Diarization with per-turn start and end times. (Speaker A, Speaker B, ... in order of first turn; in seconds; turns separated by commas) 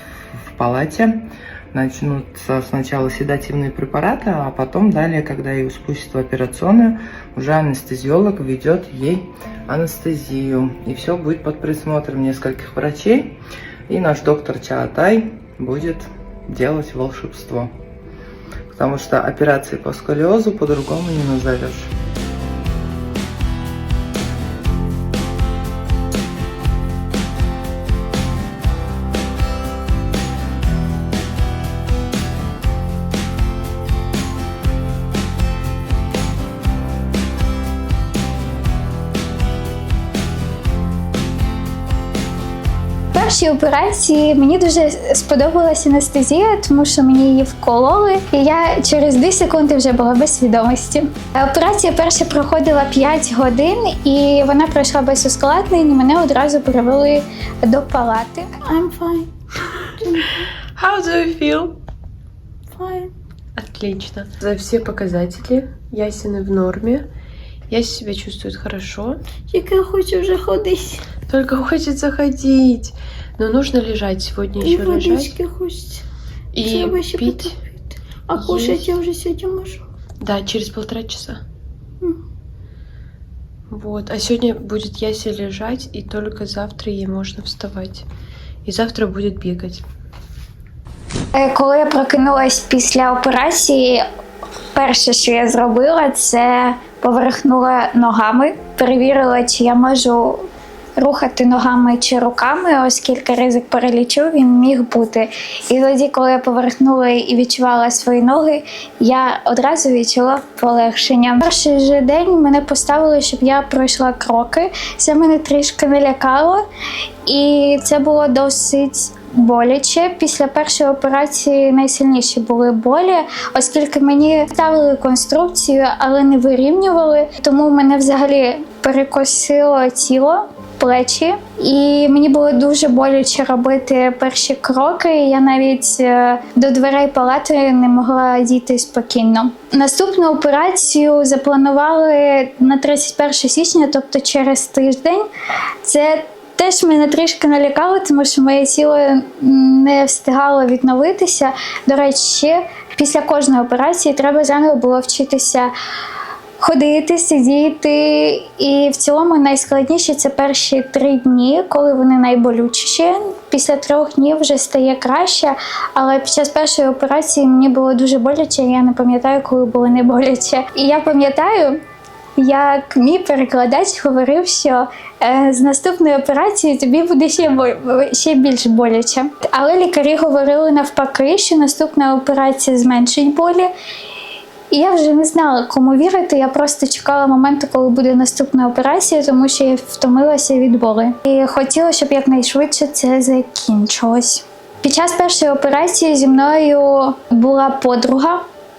Speaker A: 0.4-17.7, Speaker A: 18.7-21.9, Speaker B: 43.1-60.5, Speaker C: 60.7-61.8, Speaker B: 62.7-63.1, Speaker C: 63.5-67.1, Speaker C: 67.7-69.2, Speaker B: 69.5-71.1, Speaker C: 71.3-75.3, Speaker B: 74.6-76.0, Speaker C: 76.5-77.6, Speaker B: 76.6-79.8, Speaker C: 78.3-79.0, Speaker C: 80.2-81.4, Speaker C: 83.7-88.0, Speaker C: 88.6-89.8, Speaker B: 91.3-94.0, Speaker B: 94.7-116.6, Speaker B: 117.2-145.3, Speaker B: 145.8-155.7, Speaker B: 156.6-171.8, Speaker B: 172.4-183.7, Speaker B: 184.7-198.4